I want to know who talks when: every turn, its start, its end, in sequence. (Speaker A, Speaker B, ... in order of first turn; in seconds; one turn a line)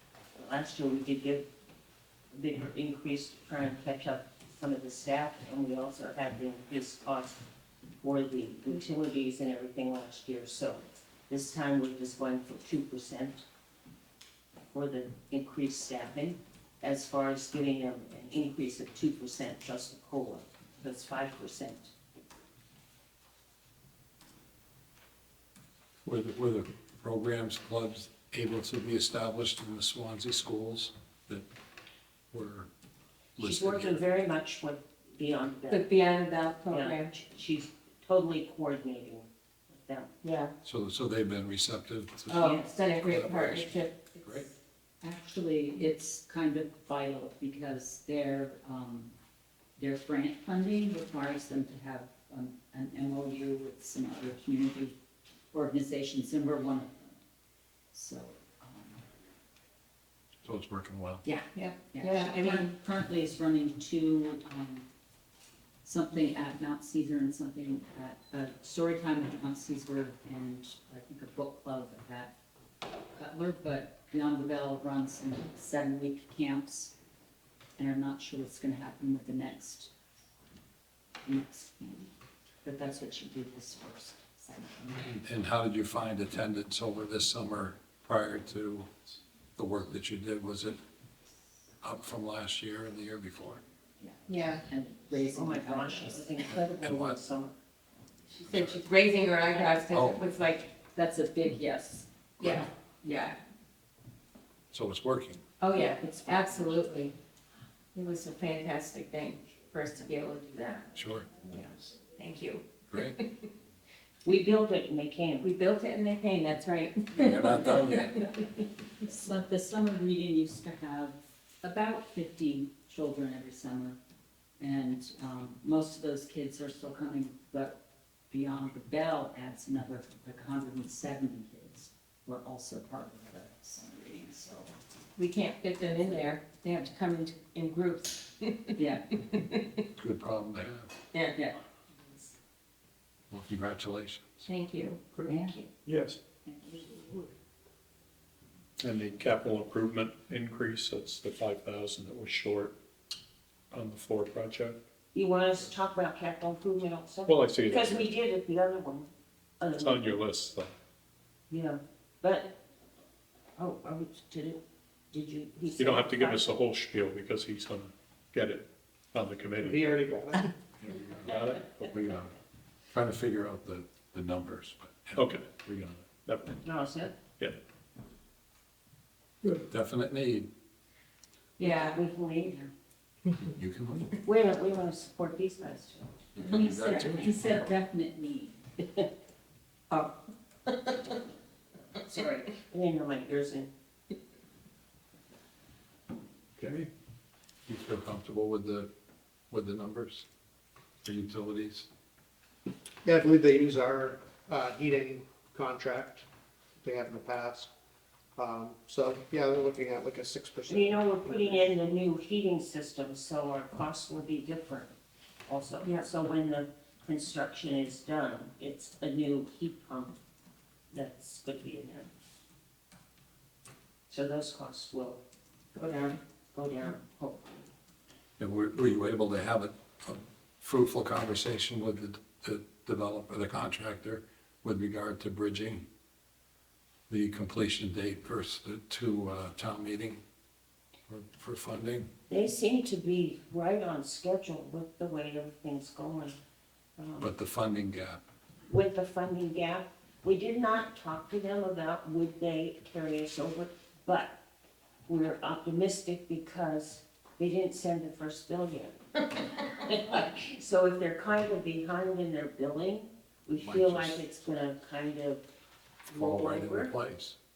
Speaker A: 0.4-1.5
Speaker A: 2.3-7.4
Speaker A: 8.0-13.4
Speaker A: 14.7-21.9
Speaker B: 26.0-31.5
Speaker B: 32.3-32.7
Speaker B: 33.4-34.0
Speaker A: 33.4-35.9
Speaker C: 35.7-37.1
Speaker A: 36.7-40.1
Speaker C: 40.2-40.5
Speaker B: 40.6-44.5
Speaker C: 42.3-44.0
Speaker D: 45.0-49.1
Speaker D: 49.8-55.0
Speaker D: 55.5-57.1
Speaker D: 57.9-59.0
Speaker B: 60.4-61.2
Speaker D: 61.2-64.9
Speaker C: 61.5-62.7
Speaker D: 65.8-72.3
Speaker D: 73.2-76.9
Speaker D: 77.8-79.9
Speaker D: 81.2-82.1
Speaker D: 82.6-85.2
Speaker B: 85.1-88.9
Speaker B: 89.6-90.8
Speaker B: 91.8-93.6
Speaker D: 94.0-96.4
Speaker C: 94.3-94.6
Speaker A: 95.3-97.5
Speaker B: 96.6-97.2
Speaker C: 98.4-100.7
Speaker B: 98.5-98.8
Speaker D: 99.6-100.1
Speaker B: 99.9-100.2
Speaker D: 100.8-103.3
Speaker C: 102.4-103.4
Speaker B: 104.7-105.4
Speaker C: 105.6-107.2
Speaker C: 107.9-110.9
Speaker B: 110.9-111.3
Speaker C: 111.5-113.3
Speaker B: 112.9-113.2
Speaker A: 114.2-115.5
Speaker C: 115.4-118.2
Speaker B: 117.1-118.1
Speaker D: 119.0-124.0
Speaker D: 124.6-134.8
Speaker C: 135.2-138.8
Speaker D: 138.8-139.2
Speaker B: 139.9-140.9
Speaker D: 141.3-141.6
Speaker B: 143.3-144.4
Speaker C: 144.5-145.7
Speaker D: 145.3-145.6
Speaker E: 145.9-146.2
Speaker D: 146.5-147.2
Speaker E: 148.8-152.8
Speaker E: 153.7-154.8
Speaker A: 155.1-160.2
Speaker E: 157.3-158.1
Speaker E: 159.8-160.7
Speaker A: 161.5-162.6
Speaker A: 163.6-166.5
Speaker E: 165.8-170.0
Speaker F: 169.6-170.5
Speaker B: 170.8-172.4
Speaker E: 171.2-171.9
Speaker B: 172.9-176.1
Speaker E: 175.2-175.5
Speaker E: 176.2-176.6
Speaker A: 176.6-177.2
Speaker B: 179.5-180.5
Speaker C: 181.6-182.0
Speaker A: 181.6-182.6
Speaker B: 183.4-184.1
Speaker A: 184.2-186.1
Speaker B: 186.4-187.4
Speaker D: 186.4-188.6
Speaker A: 192.0-193.7
Speaker B: 196.6-196.9
Speaker B: 197.7-198.9
Speaker B: 199.5-200.3
Speaker B: 201.0-201.9
Speaker F: 203.1-206.2
Speaker F: 206.8-207.7
Speaker F: 208.4-211.7
Speaker A: 210.7-214.9
Speaker A: 215.5-220.2
Speaker A: 220.9-222.1
Speaker A: 224.1-225.2
Speaker C: 225.7-226.2
Speaker A: 226.5-227.7
Speaker B: 228.4-235.9
Speaker B: 237.1-240.2
Speaker B: 241.1-242.1
Speaker A: 242.3-246.4
Speaker A: 247.0-247.3
Speaker B: 247.2-248.2
Speaker A: 248.7-254.4
Speaker A: 255.1-265.5
Speaker B: 263.6-264.2
Speaker A: 266.1-266.9
Speaker B: 266.1-267.4